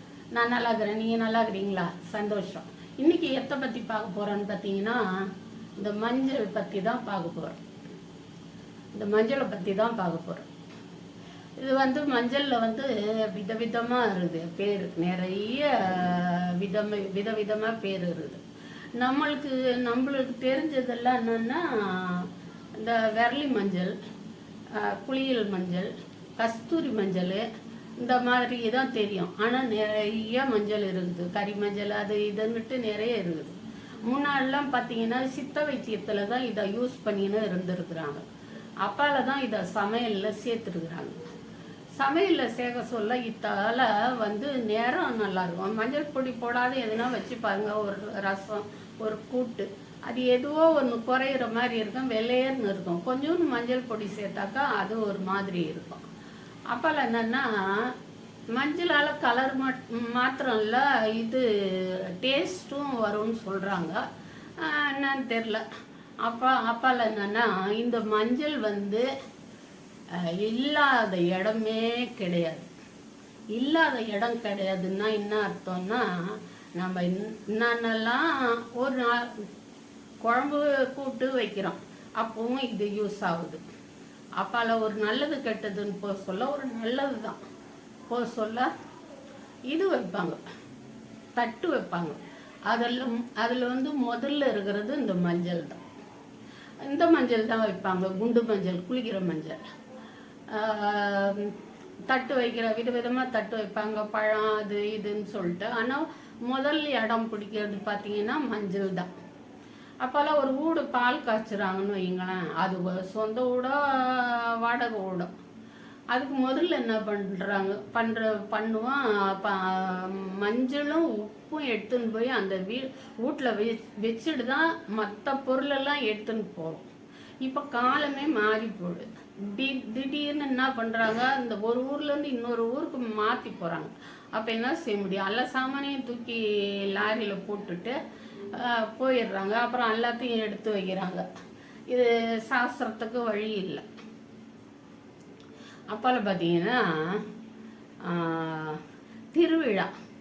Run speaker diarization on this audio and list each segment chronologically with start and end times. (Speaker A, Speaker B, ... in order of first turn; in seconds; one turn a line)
Speaker A: 0.3-5.3
Speaker A: 5.8-7.6
Speaker A: 8.9-10.5
Speaker A: 11.6-18.4
Speaker A: 19.0-23.9
Speaker A: 24.7-27.5
Speaker A: 28.0-38.2
Speaker A: 38.8-41.2
Speaker A: 42.0-56.0
Speaker A: 56.7-58.0
Speaker A: 58.5-64.0
Speaker A: 64.6-65.7
Speaker A: 66.2-69.1
Speaker A: 70.1-72.7
Speaker A: 73.5-79.5
Speaker A: 80.2-83.6
Speaker A: 84.4-87.4
Speaker A: 88.1-88.7
Speaker A: 89.7-90.4
Speaker A: 91.3-95.8
Speaker A: 96.8-99.6
Speaker A: 100.5-101.6
Speaker A: 102.1-109.1
Speaker A: 110.0-115.3
Speaker A: 116.1-126.9
Speaker A: 127.4-138.0
Speaker A: 138.5-141.3
Speaker A: 141.9-143.9
Speaker A: 145.9-147.2
Speaker A: 148.0-148.8
Speaker A: 149.3-149.9